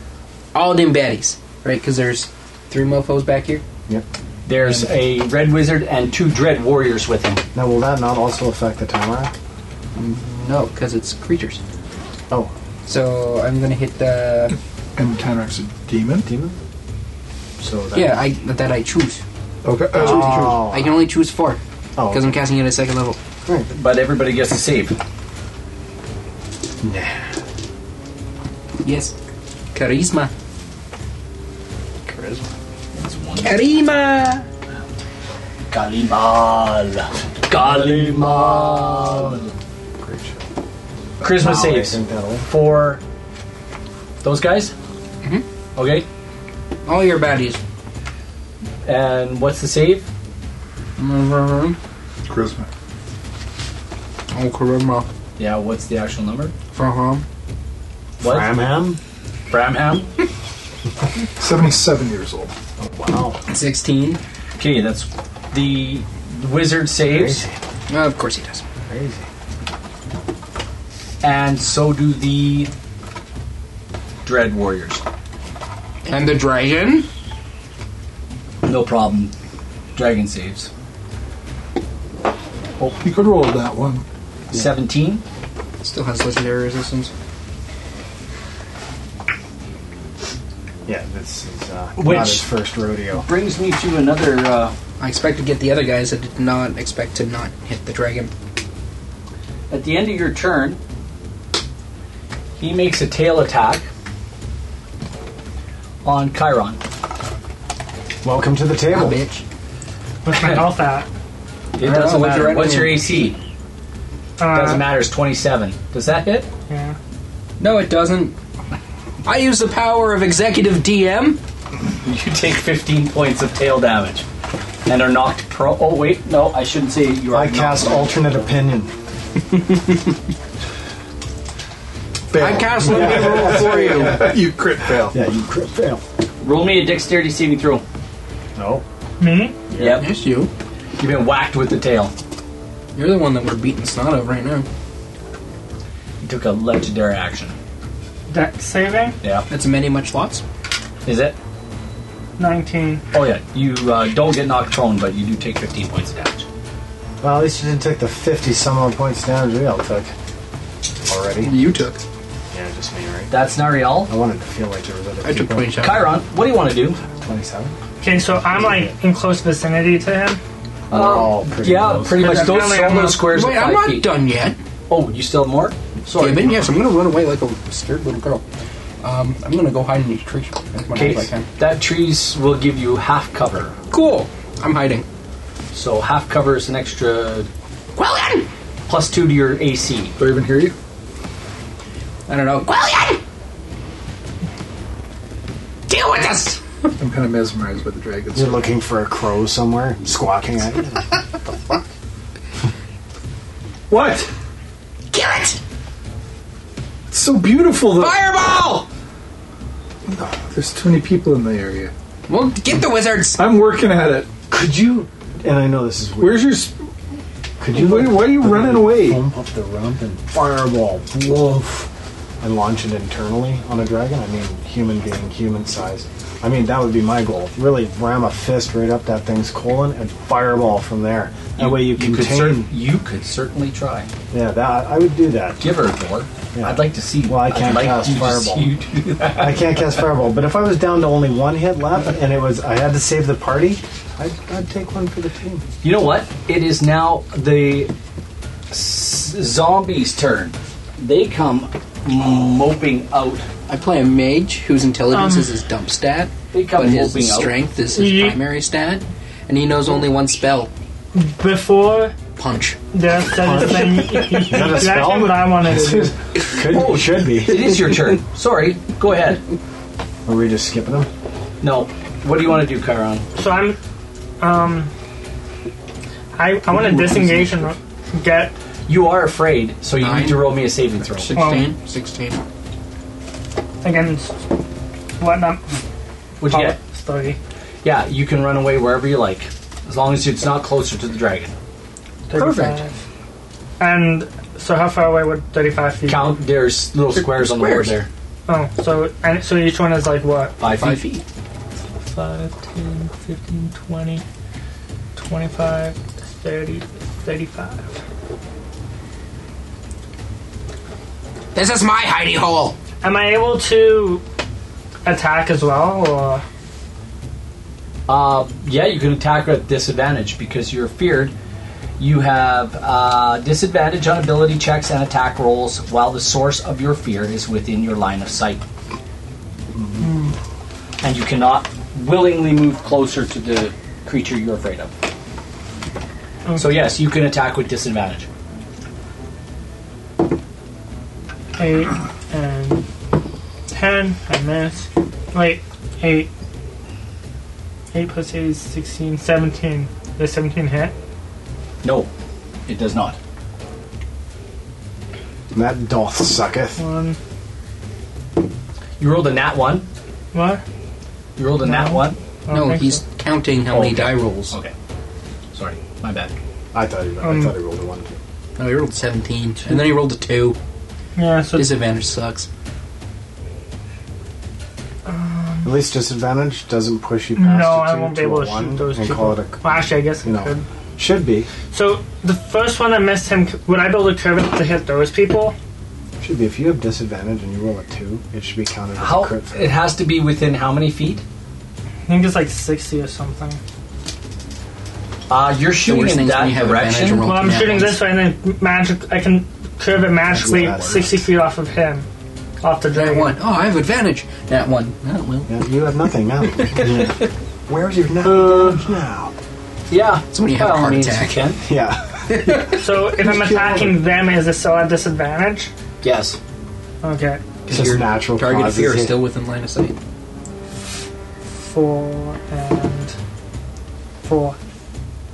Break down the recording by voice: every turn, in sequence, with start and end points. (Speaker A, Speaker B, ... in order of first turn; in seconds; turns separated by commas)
Speaker A: 0.5-3.6, Speaker B: 4.5-7.4, Speaker C: 7.5-9.3, Speaker A: 10.0-11.6, Speaker A: 12.9-14.6, Speaker D: 15.0-16.3, Speaker C: 16.2-16.6, Speaker C: 17.6-18.2, Speaker A: 17.9-19.2, Speaker D: 19.6-20.6, Speaker C: 19.9-21.0, Speaker A: 19.9-23.2, Speaker C: 22.0-22.4, Speaker C: 23.5-23.7, Speaker B: 23.7-25.0, Speaker C: 26.8-27.3, Speaker A: 28.8-29.1, Speaker A: 29.7-30.3, Speaker C: 32.0-32.5, Speaker B: 32.9-33.6, Speaker A: 33.4-34.5, Speaker B: 35.7-39.5, Speaker C: 37.5-39.5, Speaker C: 40.0-40.5, Speaker B: 41.2-43.0, Speaker C: 41.2-42.5, Speaker B: 44.2-44.7, Speaker B: 45.8-46.1, Speaker A: 46.9-47.6, Speaker B: 48.8-50.1, Speaker A: 51.0-51.8, Speaker D: 52.3-52.7, Speaker A: 54.3-55.1, Speaker B: 55.4-56.5, Speaker A: 56.7-57.2, Speaker B: 58.2-58.5, Speaker C: 58.2-59.0, Speaker B: 59.5-60.1, Speaker D: 61.4-62.5, Speaker C: 62.8-63.4, Speaker A: 63.5-64.2, Speaker B: 64.6-67.4, Speaker C: 67.0-67.6, Speaker A: 67.9-68.6, Speaker C: 68.9-69.3, Speaker B: 71.2-72.7, Speaker B: 74.2-75.0, Speaker A: 76.0-77.1, Speaker B: 78.6-79.3, Speaker B: 80.0-80.7, Speaker D: 83.0-84.0, Speaker B: 84.5-85.2, Speaker A: 85.8-87.1, Speaker C: 90.9-93.3, Speaker B: 92.0-92.5, Speaker B: 93.1-94.8, Speaker A: 95.0-98.3, Speaker B: 99.7-100.8, Speaker B: 102.6-103.9, Speaker B: 106.0-106.8, Speaker C: 108.2-109.2, Speaker A: 108.9-109.4, Speaker E: 110.2-111.1, Speaker B: 110.3-110.6, Speaker B: 111.8-113.4, Speaker A: 111.8-113.2, Speaker E: 114.4-114.9, Speaker B: 114.5-116.5, Speaker E: 116.7-117.0, Speaker A: 117.6-118.4, Speaker A: 119.2-121.4, Speaker B: 122.0-124.3, Speaker B: 124.9-128.2, Speaker C: 127.3-128.9, Speaker D: 132.3-135.2, Speaker A: 132.3-134.3, Speaker C: 132.4-134.4, Speaker C: 135.1-136.0, Speaker B: 136.4-137.8, Speaker C: 138.6-138.8, Speaker E: 139.2-139.6, Speaker C: 139.7-140.0, Speaker B: 139.8-140.1, Speaker A: 139.9-140.5, Speaker B: 141.0-142.1, Speaker A: 142.9-144.7, Speaker B: 146.2-147.6, Speaker E: 148.3-149.2, Speaker B: 149.2-149.5, Speaker A: 149.5-150.4, Speaker B: 151.1-151.4, Speaker E: 152.4-153.0, Speaker B: 153.1-156.4, Speaker C: 157.2-160.1, Speaker C: 161.1-161.8, Speaker A: 161.4-162.0, Speaker C: 162.5-163.3, Speaker B: 163.3-164.1, Speaker C: 164.1-165.9, Speaker A: 165.2-166.1, Speaker B: 165.8-167.0, Speaker C: 167.1-167.8, Speaker E: 168.0-170.4, Speaker C: 168.4-168.9, Speaker C: 170.9-172.4, Speaker B: 170.9-174.1, Speaker E: 172.1-173.3, Speaker A: 173.1-174.6, Speaker B: 174.9-176.6, Speaker A: 176.2-178.4, Speaker A: 179.0-181.5, Speaker B: 180.9-183.8, Speaker A: 183.9-185.1, Speaker B: 185.7-187.5, Speaker A: 187.9-188.5, Speaker B: 188.9-190.1, Speaker D: 190.2-190.8, Speaker A: 192.3-193.2, Speaker A: 195.9-196.6, Speaker D: 197.0-198.7, Speaker C: 198.3-201.8, Speaker D: 203.9-204.3, Speaker A: 205.1-205.6, Speaker D: 207.1-208.3, Speaker A: 207.9-208.9, Speaker D: 210.1-211.9, Speaker A: 212.3-213.4, Speaker D: 213.4-214.3, Speaker C: 214.5-216.5, Speaker D: 216.2-216.8, Speaker C: 217.6-221.9, Speaker D: 217.7-219.2, Speaker C: 222.4-232.7, Speaker B: 231.6-234.1, Speaker C: 234.3-235.8, Speaker B: 235.6-239.9, Speaker C: 236.5-245.7, Speaker B: 245.8-247.9, Speaker B: 248.7-253.5, Speaker A: 253.7-260.7, Speaker E: 255.1-255.5, Speaker B: 256.5-257.5, Speaker E: 257.9-258.4, Speaker E: 261.1-262.1, Speaker A: 262.4-262.8, Speaker E: 262.9-266.1, Speaker C: 263.4-267.8, Speaker A: 263.8-264.6, Speaker B: 266.6-269.4, Speaker C: 270.3-271.1, Speaker B: 271.6-273.3, Speaker E: 273.4-273.8, Speaker E: 274.4-274.9, Speaker E: 276.4-278.5, Speaker B: 278.9-281.3, Speaker A: 280.0-282.4, Speaker E: 281.3-281.7, Speaker E: 283.8-284.4, Speaker E: 285.2-285.8, Speaker B: 286.4-286.8, Speaker E: 286.5-287.4, Speaker B: 287.8-291.6, Speaker E: 292.3-293.0, Speaker A: 292.3-292.8, Speaker E: 293.8-296.4, Speaker B: 296.1-298.1, Speaker A: 297.1-298.0, Speaker E: 298.5-300.6, Speaker B: 300.6-301.1, Speaker A: 300.6-301.2, Speaker E: 302.0-304.2, Speaker E: 305.1-307.9, Speaker A: 311.5-312.8, Speaker E: 313.0-314.2, Speaker E: 315.1-316.4, Speaker B: 318.1-321.3, Speaker B: 322.0-328.6, Speaker C: 329.7-330.1, Speaker E: 330.0-330.4, Speaker B: 331.0-334.9, Speaker E: 336.5-336.8, Speaker B: 336.6-338.3, Speaker E: 341.6-342.9, Speaker E: 343.7-346.3, Speaker E: 347.9-350.9, Speaker B: 351.8-352.1, Speaker B: 352.7-353.2, Speaker C: 355.5-356.8, Speaker E: 356.8-357.2, Speaker B: 359.0-359.9, Speaker E: 360.3-360.6, Speaker B: 361.4-362.2, Speaker E: 361.6-363.0, Speaker A: 362.5-364.6, Speaker B: 363.7-364.7, Speaker B: 365.5-366.3, Speaker C: 366.7-368.2, Speaker E: 367.2-367.5, Speaker A: 368.6-370.6, Speaker E: 371.1-371.8, Speaker A: 371.6-372.5, Speaker E: 375.1-375.7, Speaker C: 375.6-381.5, Speaker E: 377.4-380.6, Speaker E: 381.7-385.6, Speaker C: 386.2-389.6, Speaker B: 389.0-391.2, Speaker E: 392.1-393.6, Speaker B: 395.3-397.3, Speaker A: 395.9-398.0, Speaker E: 397.2-402.1, Speaker C: 400.3-401.3, Speaker B: 400.4-400.9, Speaker E: 402.6-403.4, Speaker A: 402.9-405.6, Speaker C: 405.5-409.3, Speaker A: 406.6-407.1, Speaker B: 408.2-408.9, Speaker B: 409.9-411.6, Speaker A: 410.3-411.5, Speaker C: 411.6-413.9, Speaker A: 412.3-412.8, Speaker E: 412.8-415.7, Speaker B: 416.0-416.4, Speaker E: 417.0-417.5, Speaker B: 417.6-418.0, Speaker C: 417.7-419.2, Speaker A: 417.8-420.0, Speaker E: 421.6-423.1, Speaker E: 424.2-424.6